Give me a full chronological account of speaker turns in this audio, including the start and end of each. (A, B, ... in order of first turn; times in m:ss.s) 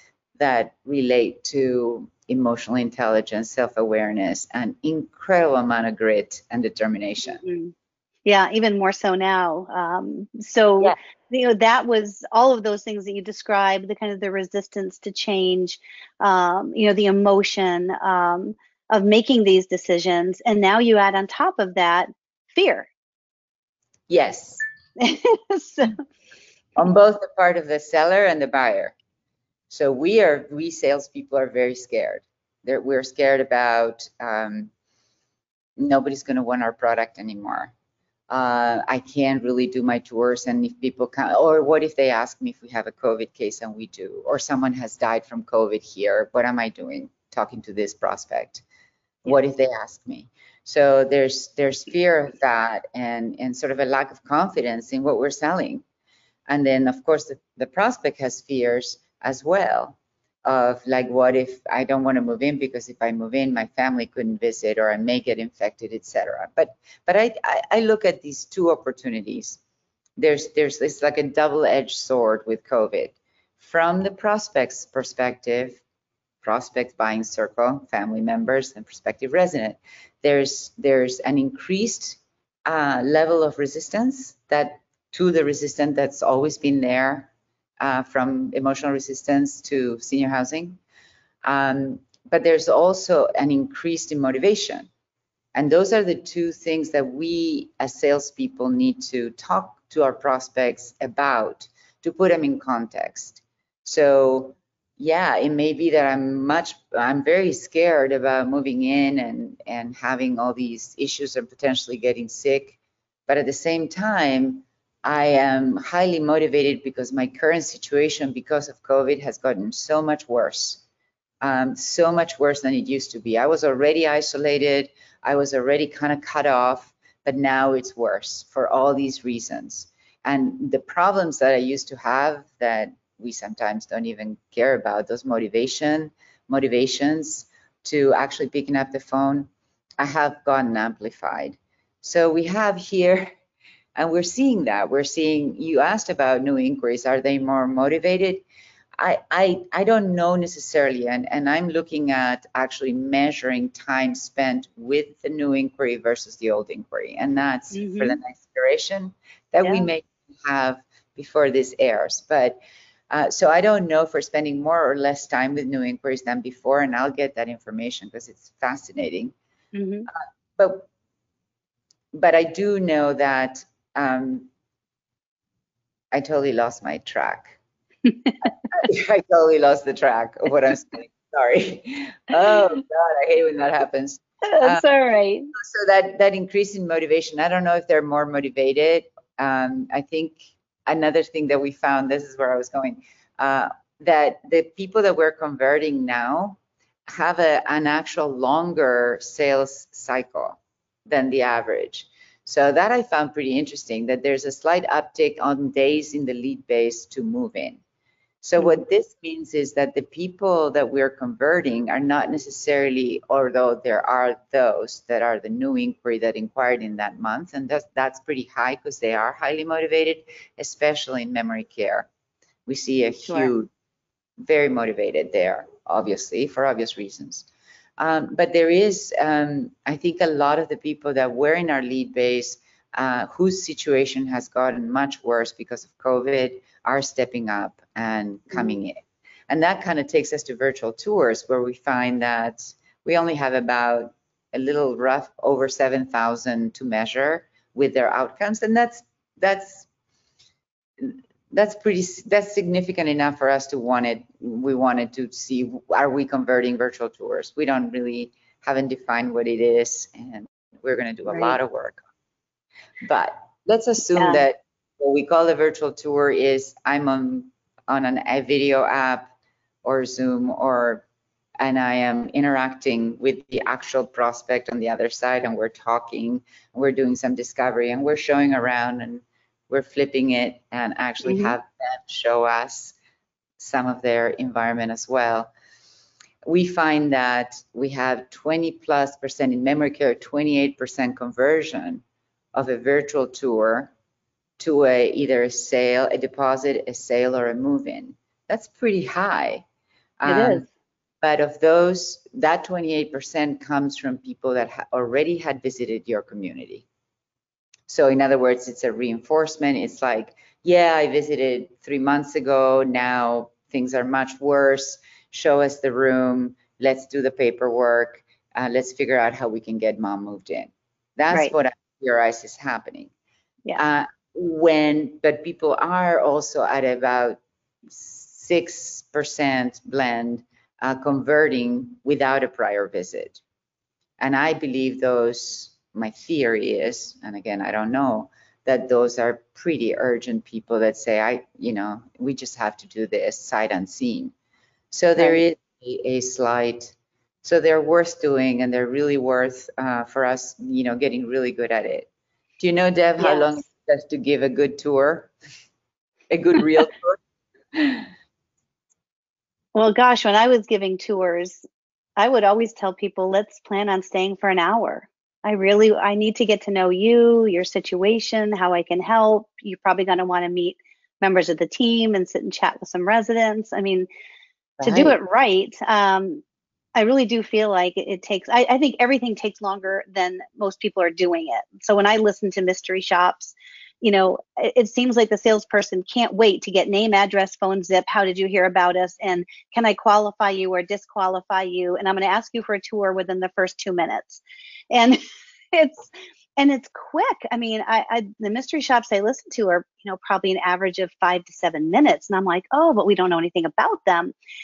0:00.4-0:07.4 A
0:07.4-0:07.7 B
0:08.2-0:22.9 B
0:24.1-0:24.6 A
0:25.0-0:25.9 B
0:26.8-0:28.9 A
0:29.7-0:34.7 A
0:35.8-0:37.7 A
0:38.3-0:48.6 A
0:49.2-0:55.8 A
0:56.5-1:09.6 A
1:10.2-1:15.8 A
1:16.4-1:30.8 A
1:31.4-1:34.9 A
1:35.5-2:00.8 A
2:01.4-2:23.3 A
2:24.0-2:28.4 A
2:29.0-2:42.6 A
2:37.7-2:38.2 B
2:43.1-2:49.3 A
2:49.7-2:50.1 B
2:50.6-2:50.9 A
2:52.1-2:54.5 A
2:56.1-2:57.6 A
2:58.7-3:04.8 A
3:04.5-3:05.5 B
3:05.5-3:27.8 A
3:28.4-3:42.1 A
3:42.6-3:43.7 A
3:44.4-3:47.5 A
3:48.0-4:09.9 A
4:11.0-4:22.0 A
4:21.3-4:21.6 B
4:23.0-4:29.3 A
4:24.2-4:24.4 B
4:29.8-4:31.0 A
4:31.6-4:43.0 A
4:41.2-4:41.5 B
4:43.6-4:45.5 A
4:46.4-4:52.0 A
4:52.5-4:53.9 A
4:54.6-4:59.6 A
5:00.2-5:00.6 A
5:00.2-5:00.7 B
5:01.2-5:06.8 A
5:07.9-5:23.1 A
5:23.7-5:33.4 A
5:34.2-5:44.3 A
5:44.9-5:52.1 A
5:52.6-5:55.3 A
5:53.2-5:53.5 B
5:56.3-5:57.2 A
5:57.7-5:58.1 A
5:59.7-6:01.6 B
6:02.2-6:14.1 B
6:14.8-6:15.2 A
6:14.8-6:16.4 B
6:17.0-6:35.2 B
6:35.7-6:44.3 B